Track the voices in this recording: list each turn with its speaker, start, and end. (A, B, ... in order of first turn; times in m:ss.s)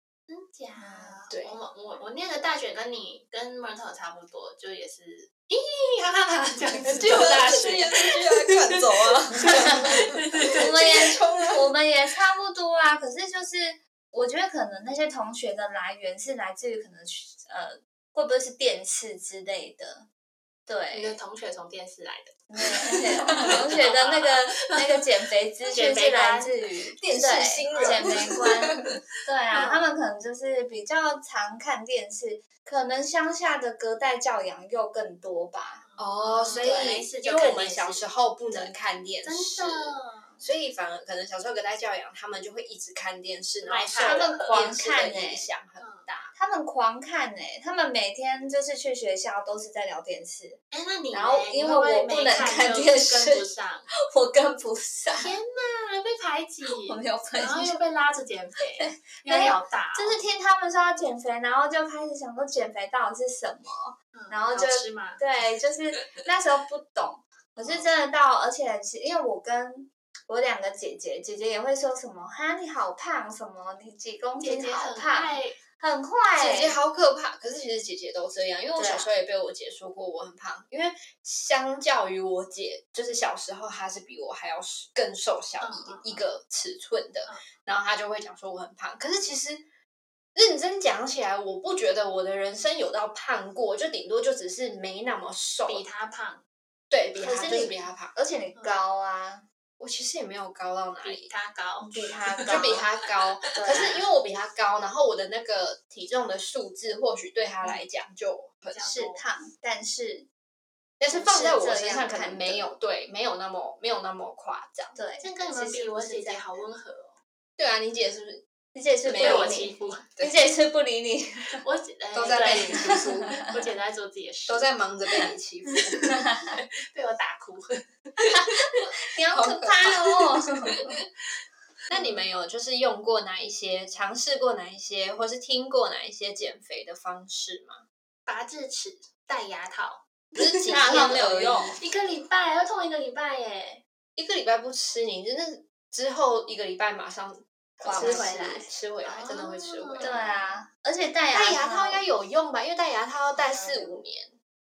0:00.3-0:10.7 A
0:00.9-0:01.6 B
0:06.8-0:11.6 B
0:10.6-0:20.1 C
0:20.7-0:21.2 C
0:20.9-0:22.4 A
0:22.5-0:35.8 C
0:23.4-0:25.0 A
0:25.7-0:26.6 A
0:27.0-0:28.9 B
0:27.7-0:28.4 A
0:29.5-0:29.8 A
0:35.8-0:38.7 A
0:36.0-0:46.3 B
0:36.6-0:36.9 C
0:39.2-0:40.4 A
0:43.6-0:44.6 A
0:44.0-0:45.5 C
0:45.8-0:46.1 A
0:46.4-0:50.6 C
0:50.7-0:53.9 A
0:51.1-0:53.4 C
0:54.0-0:55.3 C
0:55.1-1:00.2 A
0:56.8-0:57.8 C
0:58.8-1:16.8 C
1:04.1-1:05.2 A
1:07.6-1:07.9 A
1:14.4-1:15.6 A
1:16.4-1:29.7 B
1:25.6-1:26.2 A
1:30.3-1:35.8 B
1:35.6-1:36.4 A
1:36.9-1:38.1 B
1:37.2-1:39.4 C
1:39.8-1:41.3 B
1:41.0-1:42.9 A
1:41.8-1:42.8 C
1:41.9-1:48.9 B
1:43.5-1:44.1 A
1:43.6-1:43.9 C
1:48.7-1:49.2 A
1:48.8-1:50.3 C
1:51.0-1:54.9 B
1:51.0-1:52.7 C
1:54.9-1:56.6 C
1:55.2-1:57.2 A
1:57.6-1:58.4 B
1:58.7-2:01.6 C
1:59.0-2:00.4 B
1:59.2-2:00.0 A
2:01.6-2:04.8 A
2:02.1-2:03.4 B
2:04.5-2:06.1 B
2:06.0-2:06.4 C
2:06.8-2:07.8 A
2:08.4-2:10.8 C
2:09.3-2:10.8 B
2:11.9-2:17.8 B
2:11.9-2:12.2 A
2:18.3-2:20.0 A
2:20.3-2:21.8 B
2:20.6-2:21.8 C
2:21.8-2:23.8 A
2:24.2-2:30.1 B
2:27.8-2:28.6 C
2:27.9-2:30.3 A
2:30.0-2:32.0 C
2:31.3-2:34.4 B
2:33.3-2:34.0 A